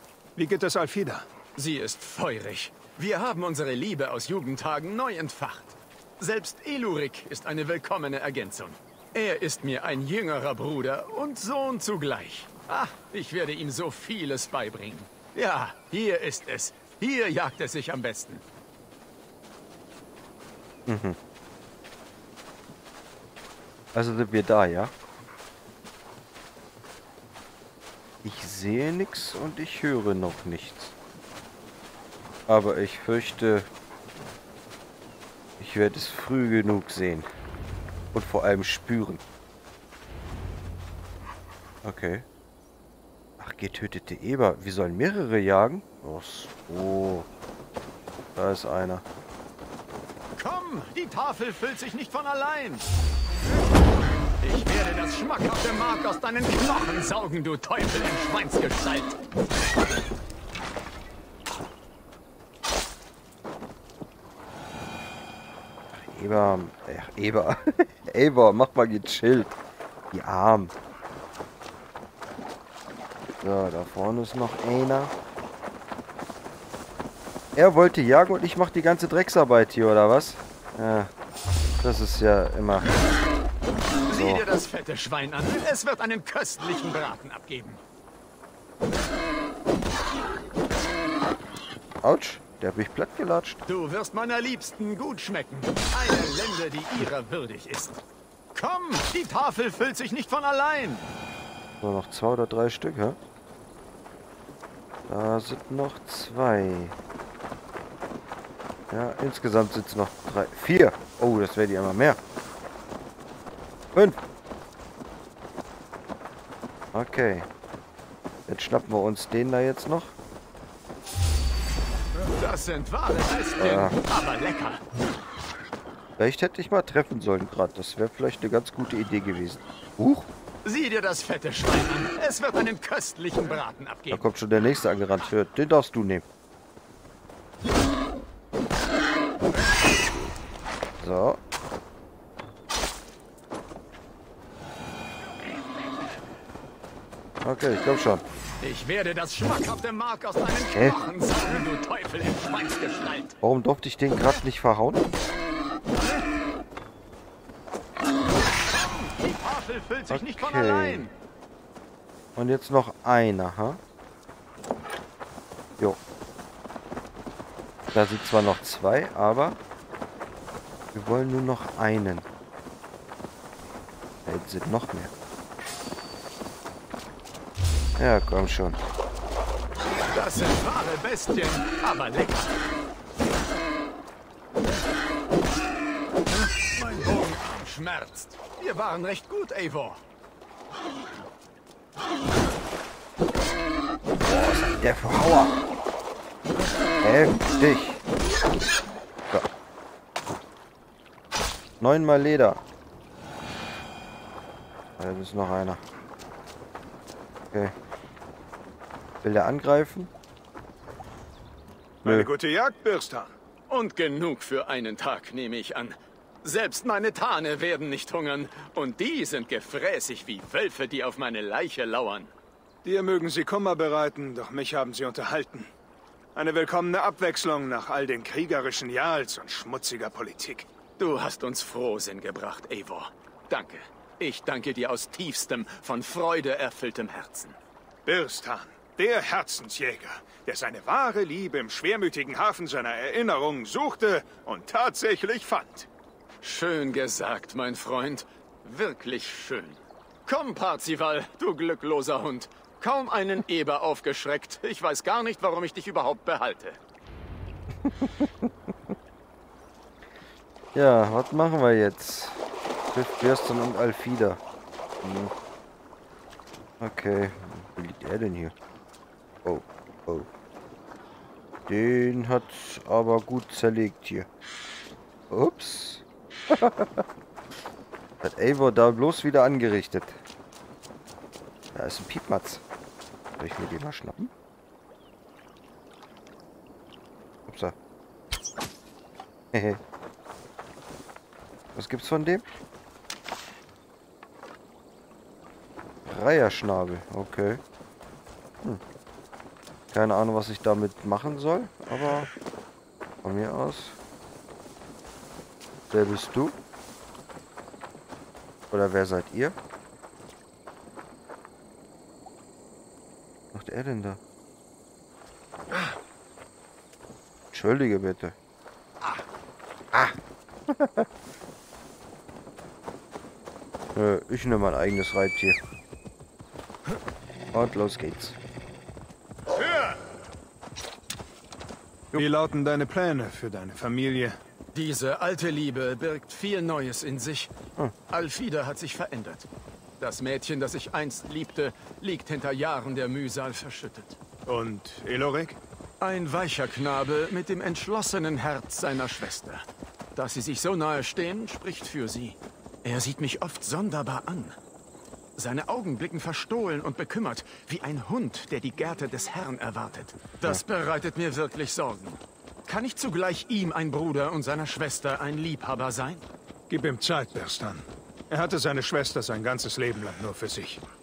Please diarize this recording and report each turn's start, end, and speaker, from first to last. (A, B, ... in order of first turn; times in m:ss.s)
0:00.4-0:01.3 A
0:01.6-0:18.4 B
0:20.8-0:21.2 C
0:23.9-0:24.9 C
0:28.2-0:30.9 C
0:32.5-0:33.7 C
0:35.6-0:37.3 C
0:38.1-0:39.2 C
0:41.8-0:42.2 C
0:43.4-0:47.3 C
0:48.3-0:49.0 C
0:50.4-0:52.8 B
0:54.4-0:59.2 B
1:05.9-1:09.5 C
1:10.1-1:10.7 C
1:13.4-1:15.1 C
1:17.5-1:21.1 C
1:21.8-1:22.9 C
1:24.1-1:27.8 B
1:24.1-1:24.4 C
1:32.0-1:33.6 C
1:33.6-1:38.0 B
1:38.5-1:41.1 B
1:41.8-1:43.2 C
1:45.1-1:47.0 C
1:48.9-1:52.2 C
1:53.9-1:54.2 C
1:56.9-1:57.5 C
1:58.5-2:00.1 C
2:02.3-2:04.8 B
2:03.6-2:04.0 C
2:06.2-2:10.3 C
2:10.6-2:14.3 B
2:14.1-2:16.2 C
2:21.0-2:21.4 C
2:27.4-2:28.2 C
2:28.6-2:33.4 B
2:33.4-2:35.0 C
2:38.6-2:41.1 B
2:40.1-2:41.1 C
2:42.4-2:43.8 C
2:47.9-2:49.6 C
2:50.9-2:52.2 C
2:54.2-2:55.1 C
2:58.0-2:58.8 C
3:00.1-3:02.6 B
3:06.7-3:10.0 B
3:14.2-3:15.6 C
3:17.0-3:18.0 C
3:21.8-3:22.6 C
3:25.0-3:25.8 C
3:29.2-3:30.1 C
3:32.0-3:33.3 A
3:32.0-3:32.3 C
3:33.7-3:42.3 B
3:42.8-3:45.7 A
3:46.3-3:50.7 A
3:51.0-3:57.6 B
3:58.0-4:05.9 A
4:06.4-4:16.8 B
4:17.8-4:18.7 C
4:20.7-4:22.4 C
4:22.9-4:24.4 C
4:25.0-4:25.3 C
4:26.8-4:28.5 C
4:29.4-4:30.3 C
4:31.7-4:34.3 C
4:35.3-4:37.0 C
4:38.2-4:40.2 C
4:41.7-4:42.6 C
4:43.4-4:44.3 C
4:47.4-4:47.7 C
4:49.5-4:49.8 C
4:51.7-4:52.4 C
4:56.0-4:57.6 C
4:59.9-5:02.3 C
5:03.2-5:04.0 C
5:05.9-5:06.6 C
5:08.7-5:09.6 C
5:13.5-5:14.2 C
5:17.5-5:18.3 C
5:19.9-5:21.1 C
5:23.9-5:25.6 C
5:27.5-5:28.4 C
5:32.1-5:34.4 A
5:34.7-5:37.5 B
5:38.1-5:39.5 B
5:40.0-5:44.2 B
5:44.4-5:45.6 A
5:46.0-5:54.6 B
5:55.4-6:06.2 B
6:06.7-6:10.8 A